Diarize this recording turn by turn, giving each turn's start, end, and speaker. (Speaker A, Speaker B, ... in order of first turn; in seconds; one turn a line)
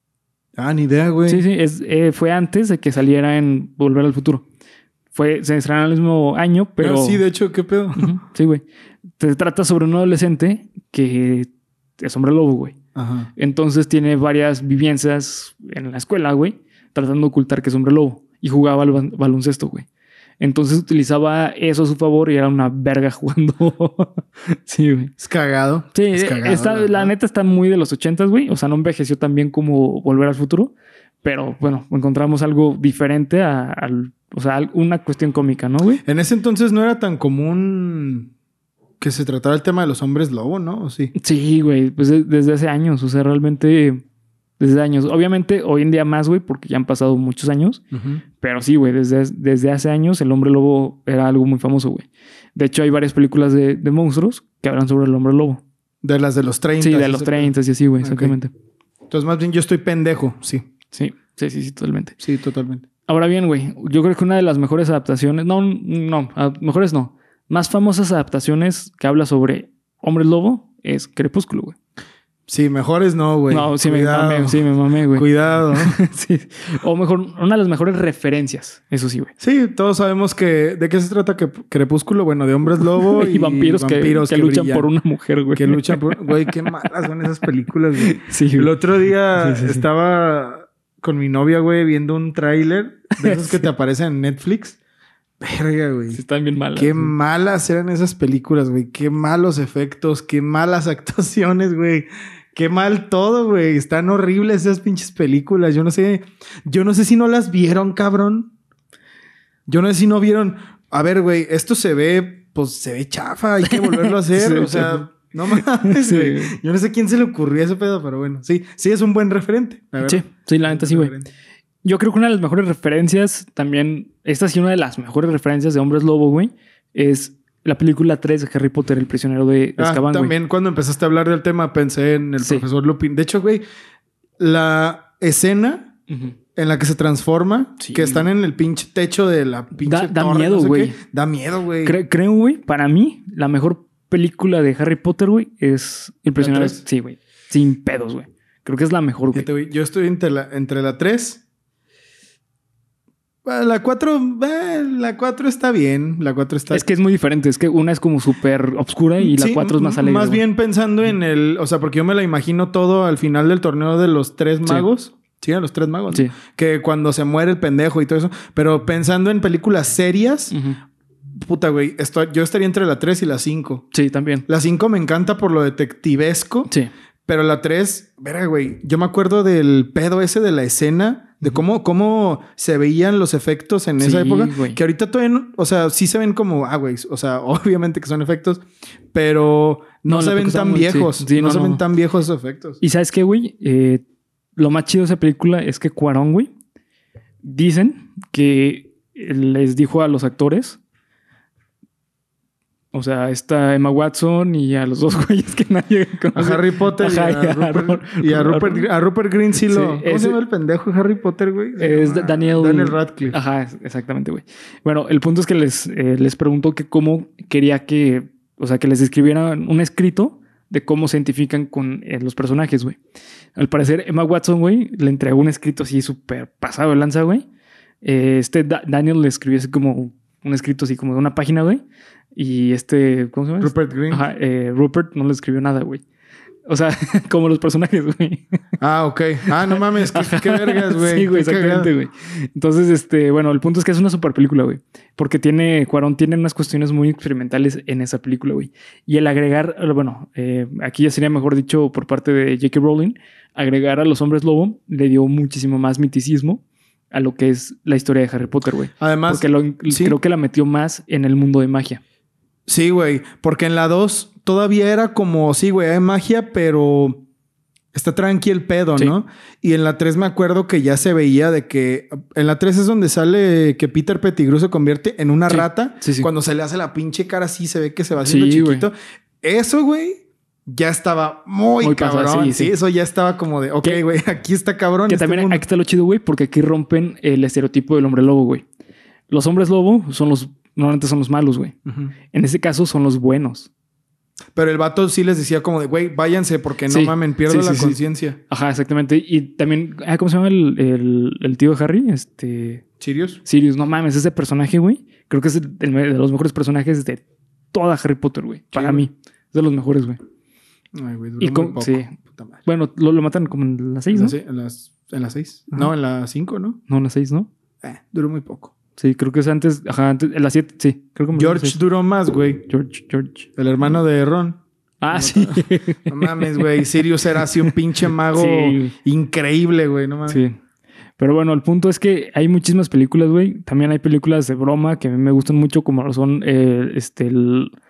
Speaker A: 0.5-1.4
Speaker B: 1.2-4.4
Speaker B: 5.1-7.2
Speaker A: 6.8-8.1
Speaker B: 8.0-8.6
Speaker B: 9.2-12.8
Speaker A: 12.9-13.3
Speaker B: 13.3-19.9
Speaker B: 20.4-25.1
Speaker A: 25.2-27.1
Speaker B: 25.9-36.0
Speaker A: 36.0-38.3
Speaker A: 39.0-41.1
Speaker B: 41.1-44.0
Speaker B: 44.6-47.8
Speaker A: 47.9-48.2
Speaker B: 48.4-55.6
Speaker A: 56.0-58.4
Speaker B: 56.8-58.5
Speaker A: 59.1-60.6
Speaker B: 60.9-62.2
Speaker A: 62.2-62.8
Speaker B: 63.1-71.7
Speaker A: 72.5-75.9
Speaker B: 73.5-79.3
Speaker A: 79.4-84.9
Speaker B: 82.8-86.5
Speaker A: 85.5-94.8
Speaker B: 88.0-88.7
Speaker B: 89.3-89.8
Speaker B: 93.2-93.6
Speaker A: 95.4-96.2
Speaker B: 96.1-97.1
Speaker A: 96.7-108.5
Speaker A: 109.7-121.3
Speaker B: 113.6-116.5
Speaker B: 120.0-121.1
Speaker B: 121.8-130.3
Speaker A: 129.8-133.6
Speaker A: 134.4-135.9
Speaker B: 136.1-136.3
Speaker A: 136.6-142.0
Speaker B: 137.8-138.3
Speaker B: 139.8-141.0
Speaker B: 141.8-149.5
Speaker A: 146.4-146.8
Speaker A: 149.3-151.4
Speaker A: 153.4-156.8
Speaker B: 156.7-160.4
Speaker A: 159.2-170.5
Speaker B: 170.5-170.8
Speaker A: 171.3-173.8
Speaker B: 173.9-174.4
Speaker A: 174.5-176.7
Speaker A: 177.3-192.8
Speaker B: 184.0-184.8
Speaker B: 190.1-191.8
Speaker B: 192.8-194.0
Speaker B: 194.6-196.5
Speaker B: 197.4-200.8
Speaker B: 202.9-208.9
Speaker A: 206.3-213.4
Speaker B: 209.6-210.4
Speaker B: 211.8-223.0
Speaker B: 223.6-227.4
Speaker B: 228.0-231.8
Speaker B: 232.3-236.0
Speaker A: 233.6-234.3
Speaker B: 236.7-238.5
Speaker A: 238.8-241.9
Speaker B: 239.5-262.0
Speaker A: 259.0-260.2
Speaker A: 262.7-267.2
Speaker A: 267.9-285.6
Speaker B: 275.5-276.3
Speaker B: 278.2-278.9
Speaker B: 281.8-282.7
Speaker B: 285.1-288.6
Speaker B: 289.3-291.8
Speaker A: 291.9-292.1
Speaker B: 292.3-293.7
Speaker A: 294.5-298.4
Speaker B: 296.9-298.0
Speaker B: 298.5-302.8
Speaker A: 303.0-303.4
Speaker B: 303.4-307.2
Speaker B: 307.7-310.2
Speaker A: 308.7-309.0
Speaker A: 310.9-312.6
Speaker B: 311.4-314.4
Speaker A: 314.1-316.8
Speaker B: 316.9-317.5
Speaker A: 317.8-318.7
Speaker B: 319.0-321.8
Speaker A: 321.3-322.6
Speaker B: 322.7-323.5
Speaker A: 323.6-330.4
Speaker B: 325.0-326.9
Speaker B: 328.3-328.9
Speaker B: 330.3-330.6
Speaker B: 331.2-337.7